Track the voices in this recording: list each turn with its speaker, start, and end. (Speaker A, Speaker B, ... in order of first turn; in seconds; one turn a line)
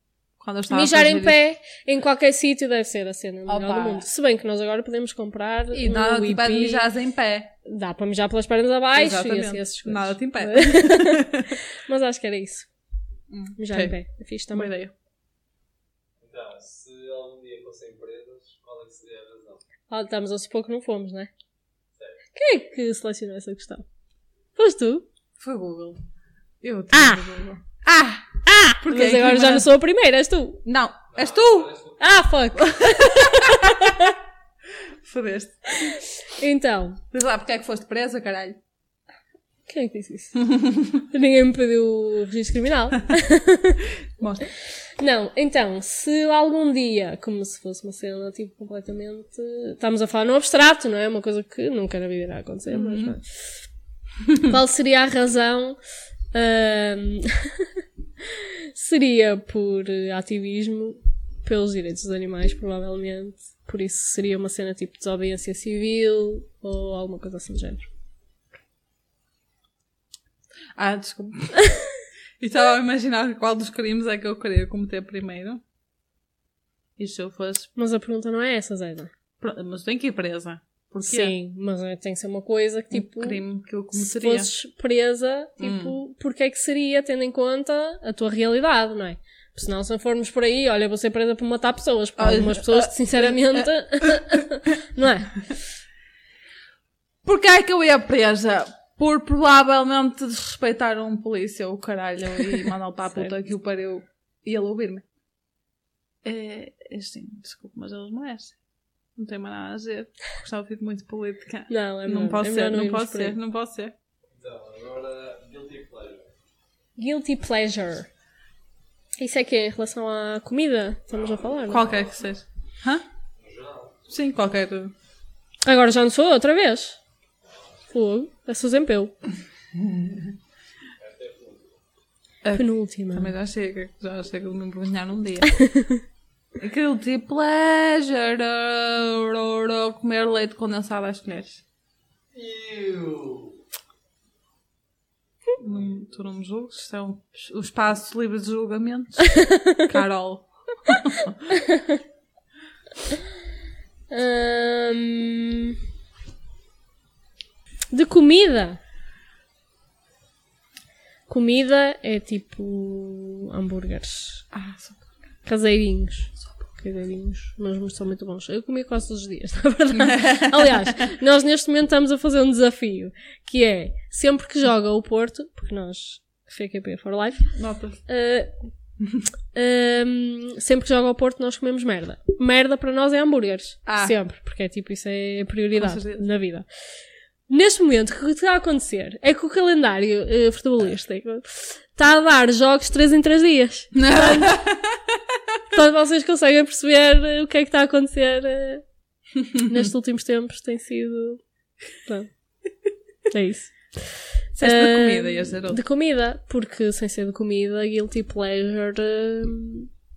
Speaker A: 0.4-1.4
Speaker B: 0.7-6.8
Speaker A: 3.5-4.0
Speaker A: 5.7-7.5
Speaker B: 7.6-12.7
Speaker A: 8.9-11.5
Speaker A: 13.3-13.9
Speaker B: 13.6-14.7
Speaker A: 14.5-14.9
Speaker C: 16.2-19.6
Speaker B: 19.9-21.3
Speaker B: 22.3-23.8
Speaker B: 24.6-25.1
Speaker A: 25.4-26.0
Speaker A: 26.6-29.7
Speaker B: 26.9-27.2
Speaker B: 28.5-30.6
Speaker A: 30.6-31.7
Speaker C: 31.1-32.2
Speaker B: 32.0-34.1
Speaker A: 32.6-33.9
Speaker A: 35.0-35.6
Speaker B: 35.7-37.0
Speaker A: 37.1-38.6
Speaker B: 39.7-40.4
Speaker A: 40.5-41.0
Speaker B: 41.1-43.9
Speaker A: 44.2-44.4
Speaker B: 45.0-53.3
Speaker A: 52.7-53.2
Speaker B: 54.4-55.8
Speaker B: 56.3-57.7
Speaker B: 58.2-67.9
Speaker A: 70.8-71.6
Speaker A: 72.4-75.6
Speaker A: 77.0-77.7
Speaker B: 77.8-79.1
Speaker A: 79.4-81.3
Speaker B: 81.0-83.4
Speaker A: 82.9-84.5
Speaker B: 83.9-95.4
Speaker A: 85.6-86.0
Speaker A: 92.2-94.4
Speaker A: 97.2-105.0
Speaker A: 106.2-108.5
Speaker A: 109.2-113.9
Speaker B: 111.7-113.3
Speaker C: 114.3-116.3
Speaker B: 117.0-118.1
Speaker B: 119.2-121.8
Speaker A: 121.7-123.0
Speaker C: 121.7-122.4
Speaker C: 123.4-124.0
Speaker A: 124.1-124.9
Speaker B: 125.6-127.0
Speaker B: 127.9-129.1
Speaker A: 129.8-130.2
Speaker C: 131.0-131.7
Speaker A: 132.4-135.6
Speaker B: 132.5-133.3
Speaker B: 135.5-136.0
Speaker A: 136.6-141.6
Speaker C: 142.3-143.6
Speaker A: 145.6-151.4
Speaker B: 149.4-149.8
Speaker B: 151.6-152.0
Speaker B: 154.1-155.8
Speaker B: 157.9-158.8
Speaker B: 161.3-164.4
Speaker A: 164.5-165.1
Speaker B: 165.4-177.5
Speaker A: 169.9-171.0
Speaker A: 177.5-178.0
Speaker B: 178.1-178.5
Speaker B: 179.5-186.7
Speaker A: 183.9-184.1
Speaker A: 185.8-186.2
Speaker B: 187.5-194.7
Speaker A: 193.9-195.1
Speaker B: 195.7-198.8
Speaker B: 199.5-201.4
Speaker B: 203.3-209.9
Speaker A: 204.6-205.8